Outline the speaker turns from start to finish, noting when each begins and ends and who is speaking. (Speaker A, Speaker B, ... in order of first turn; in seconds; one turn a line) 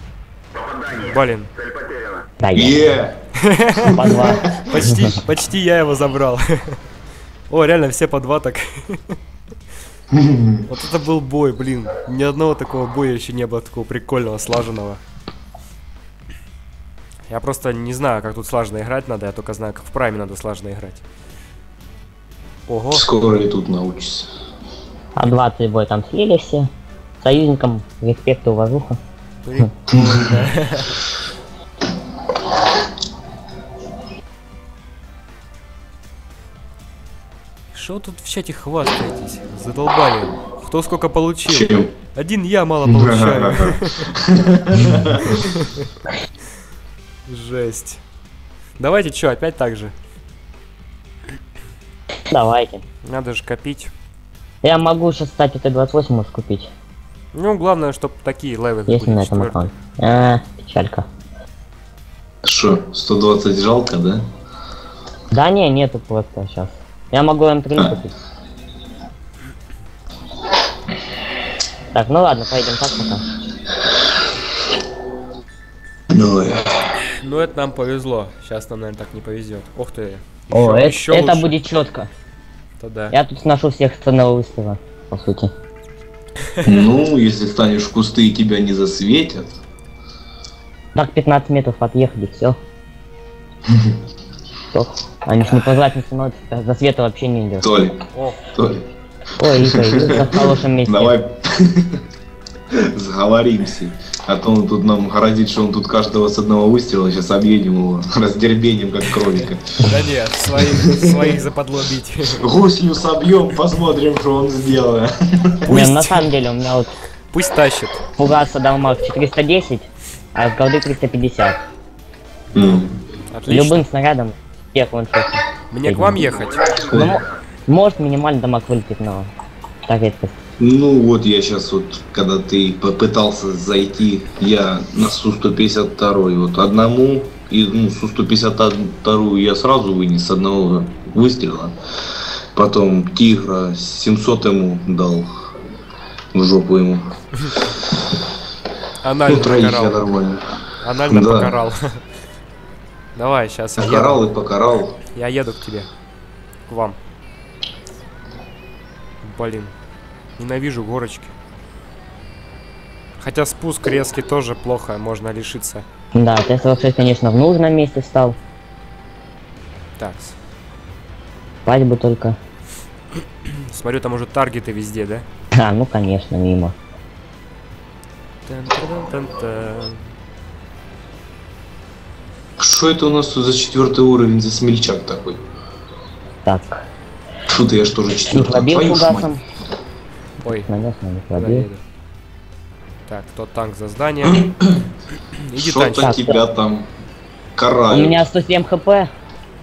Speaker A: 0.9-1.5
Speaker B: 2.4-2.9
Speaker C: 2.5-3.2
Speaker A: 3.4-3.9
Speaker C: 3.8-4.9
Speaker B: 3.9-5.1
Speaker A: 4.6-6.8
Speaker A: 7.5-9.2
Speaker C: 10.1-10.6
Speaker A: 10.7-15.0
Speaker A: 17.3-21.0
Speaker A: 22.7-23.0
Speaker C: 22.9-24.3
Speaker B: 25.1-26.7
Speaker B: 27.2-29.0
Speaker A: 29.4-31.0
Speaker C: 29.9-30.3
Speaker A: 37.7-44.1
Speaker C: 41.5-41.9
Speaker C: 42.8-45.4
Speaker A: 45.4-45.9
Speaker A: 47.3-48.0
Speaker A: 48.8-49.9
Speaker B: 52.3-52.8
Speaker A: 53.0-53.9
Speaker B: 54.6-56.7
Speaker A: 57.3-59.7
Speaker B: 58.9-61.0
Speaker C: 62.4-64.2
Speaker B: 65.3-68.1
Speaker B: 71.9-73.2
Speaker C: 76.1-76.7
Speaker A: 77.0-81.5
Speaker B: 80.5-82.1
Speaker A: 82.8-83.2
Speaker B: 83.1-85.5
Speaker A: 86.5-86.8
Speaker C: 86.6-89.5
Speaker B: 90.9-92.6
Speaker B: 94.7-97.7
Speaker C: 97.6-98.0
Speaker A: 98.1-98.5
Speaker C: 98.5-98.8
Speaker B: 99.4-101.1
Speaker C: 99.5-102.0
Speaker C: 102.7-109.8
Speaker A: 109.0-112.4
Speaker C: 110.6-111.4
Speaker C: 112.4-115.8
Speaker A: 115.6-116.3
Speaker B: 115.7-116.9
Speaker A: 117.3-118.0
Speaker B: 118.2-121.6
Speaker C: 122.5-122.9
Speaker A: 122.5-123.8
Speaker B: 123.5-126.2
Speaker A: 125.7-126.7
Speaker C: 126.7-127.2
Speaker B: 126.9-129.3
Speaker B: 129.9-130.3
Speaker C: 130.6-141.8
Speaker C: 142.5-145.3
Speaker C: 146.3-147.8
Speaker A: 149.0-150.1
Speaker C: 149.2-150.4
Speaker A: 150.8-152.0
Speaker C: 151.1-151.6
Speaker A: 153.1-154.2
Speaker C: 153.8-155.0
Speaker A: 155.1-155.9
Speaker A: 156.7-157.0
Speaker A: 159.2-159.7
Speaker A: 160.4-161.3
Speaker A: 163.2-165.8
Speaker B: 166.1-168.3
Speaker A: 170.0-170.3
Speaker B: 171.7-172.4
Speaker A: 173.4-175.2
Speaker B: 175.5-176.7
Speaker A: 178.4-180.1
Speaker C: 182.6-185.4
Speaker B: 186.4-186.8
Speaker C: 187.5-189.3
Speaker B: 188.3-189.4
Speaker B: 190.4-191.7
Speaker A: 191.3-191.8
Speaker A: 193.1-194.4
Speaker C: 194.2-194.8
Speaker A: 195.4-196.1
Speaker C: 195.6-196.9
Speaker B: 196.0-196.4
Speaker C: 197.6-198.2
Speaker B: 197.9-199.1